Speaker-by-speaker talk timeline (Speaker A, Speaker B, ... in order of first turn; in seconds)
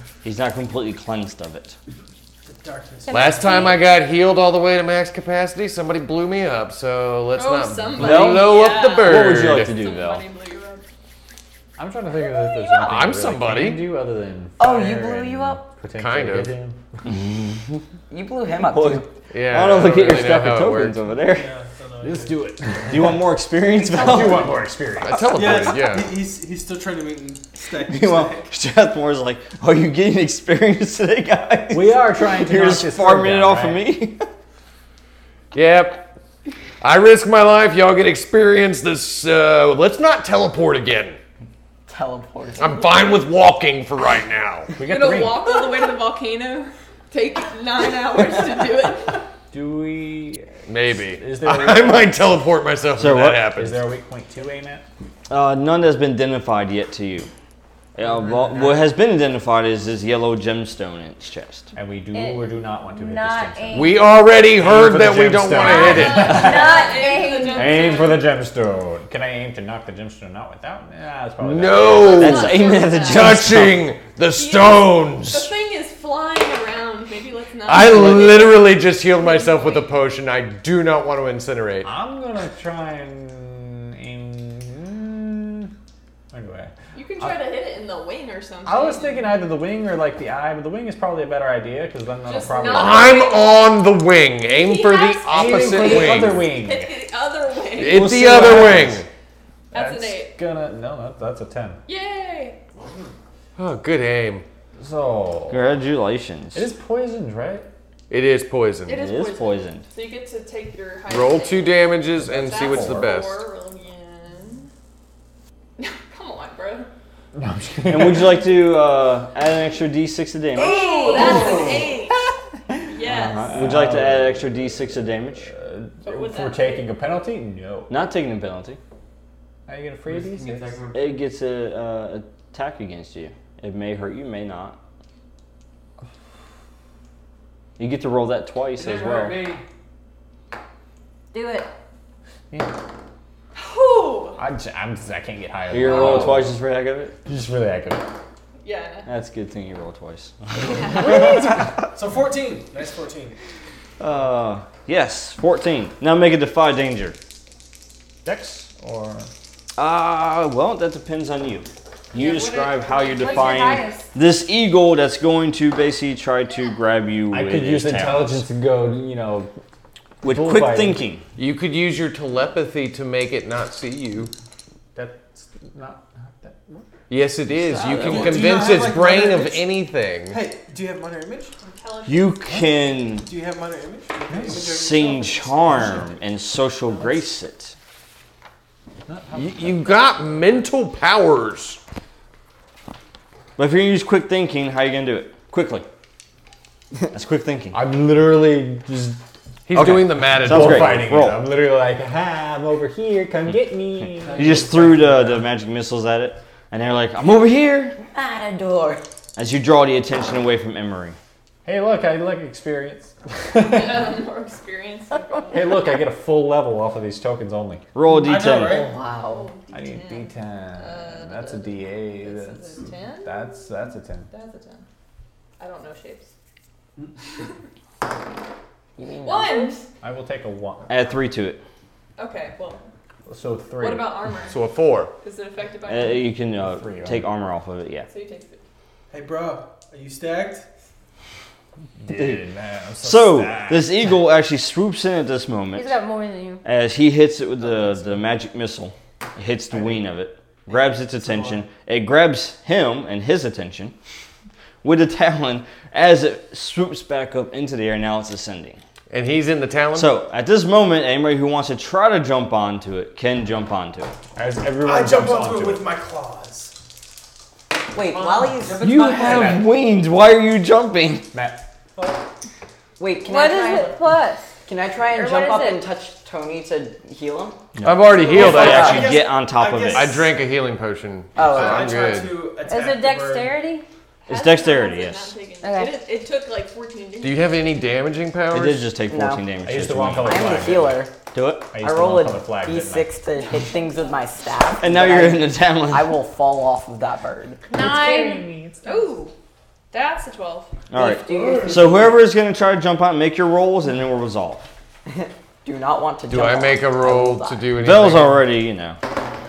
Speaker A: 0.2-1.8, 8.0-10.2, 18.5-21.6, 22.9-24.5, 27.8-34.3, 53.0-53.5, 55.3-57.3, 58.0-61.7, 72.1-73.8, 97.9-98.9, 105.5-106.7, 108.9-109.8, 117.9-121.5, 123.0-125.5, 127.9-128.8, 130.9-134.8, 137.8-139.5, 145.7-147.2, 149.1-151.7, 154.0-157.2, 159.8-168.4, 170.2-171.2, 182.1-183.3, 184.5-187.8, 193.6-195.9, 197.1-197.8, 199.7-201.4, 204.3-208.0, 209.4-211.2, 217.9-218.8, 230.9-231.6, 235.9-238.1, 242.1-242.4, 243.0-245.9, 246.6-253.9, 254.8-258.8, 259.9-264.1, 268.8-271.3, 277.8-280.3, 284.3-285.3, 288.5-290.8, 291.3-291.7, 294.8-296.2, 300.9-304.7, 307.8-309.0
Speaker B: 2.5-3.8, 21.2-22.4, 25.3-28.5, 151.3-153.4, 177.9-181.7, 183.1-186.1, 218.1-218.9, 239.1-240.7, 251.2-251.6, 264.8-266.7, 271.9-272.2, 278.1-280.4, 281.4-283.6
Speaker C: 3.0-3.8, 62.1-64.1, 65.6-67.9, 120.6-121.3, 141.3-141.7, 162.2-164.1, 245.7-246.6, 273.2-274.6, 275.1-275.8, 282.6-283.9, 285.6-285.9, 297.8-298.4
Speaker D: 3.1-9.8, 12.8-13.9, 15.9-16.5, 19.3-21.1, 25.0-26.1, 35.5-36.0, 36.8-41.2, 42.6-44.7, 50.7-53.8, 63.7-66.5, 71.4-75.5, 77.6-81.9, 92.7-96.4, 97.8-99.1, 103.6-104.5, 108.1-109.0, 111.1-113.4, 171.3-174.3, 177.1-180.4, 189.3-191.8, 199.7-201.1, 234.5-235.1, 259.1-260.1, 277.8-279.1, 279.9-282.4, 287.2-288.9, 306.3-308.5
Speaker E: 7.3-10.9, 12.1-13.0, 44.8-49.3, 65.6-68.3, 71.8-73.3, 74.3-80.0, 86.9-89.3, 92.2-93.8, 94.4-98.1, 99.7-100.4, 101.9-102.6, 108.9-114.7, 115.8-116.9, 120.6-123.6, 126.0-127.0, 143.5-144.4, 145.9-146.4, 148.6-149.1, 150.7-151.2, 162.2-163.7, 181.7-182.7, 213.5-215.9, 219.1-224.8, 225.6-226.3, 229.2-229.9, 232.2-232.8, 233.8-234.6, 235.2-236.3, 238.1-238.6, 284.2-288.0, 293.4-294.2, 297.7-299.3, 299.9-300.7
Speaker F: 11.8-16.8, 22.0-25.5, 31.7-33.8, 44.7-45.5, 49.5-52.2, 53.5-54.8, 61.7-72.4, 81.8-85.7, 86.3-87.4, 88.7-93.2, 95.2-96.9, 97.9-99.0, 99.7-101.8, 104.8-105.7, 106.5-107.7, 112.2-112.9, 117.3-118.4, 123.4-128.0, 129.7-130.8, 144.4-146.5, 147.2-148.1, 150.9-151.4, 158.2-159.3, 167.3-169.5, 170.2-171.1, 174.9-176.9, 184.3-184.7, 189.1-190.4, 197.7-199.2, 199.8-205.4, 211.6-214.2, 215.5-217.9, 219.7-224.3, 230.0-231.0, 233.3-234.3, 236.5-237.3, 242.0-244.2, 264.4-265.9, 269.2-269.6, 271.3-271.6, 289.6-291.0, 291.7-293.1, 297.7-299.1
Speaker G: 14.6-15.7, 18.1-19.1, 41.9-43.0, 178.0-178.3, 208.1-209.0, 218.5-219.5, 229.0-229.8, 267.9-269.5, 273.0-274.0, 274.6-277.6, 278.4-279.1, 281.4-282.0, 289.1-289.5, 290.2-291.1, 291.8-297.6, 300.9-302.2, 305.1-307.7
Speaker H: 121.4-121.9, 130.1-131.2, 138.7-139.6, 204.2-205.3, 268.0-269.7, 301.2-302.1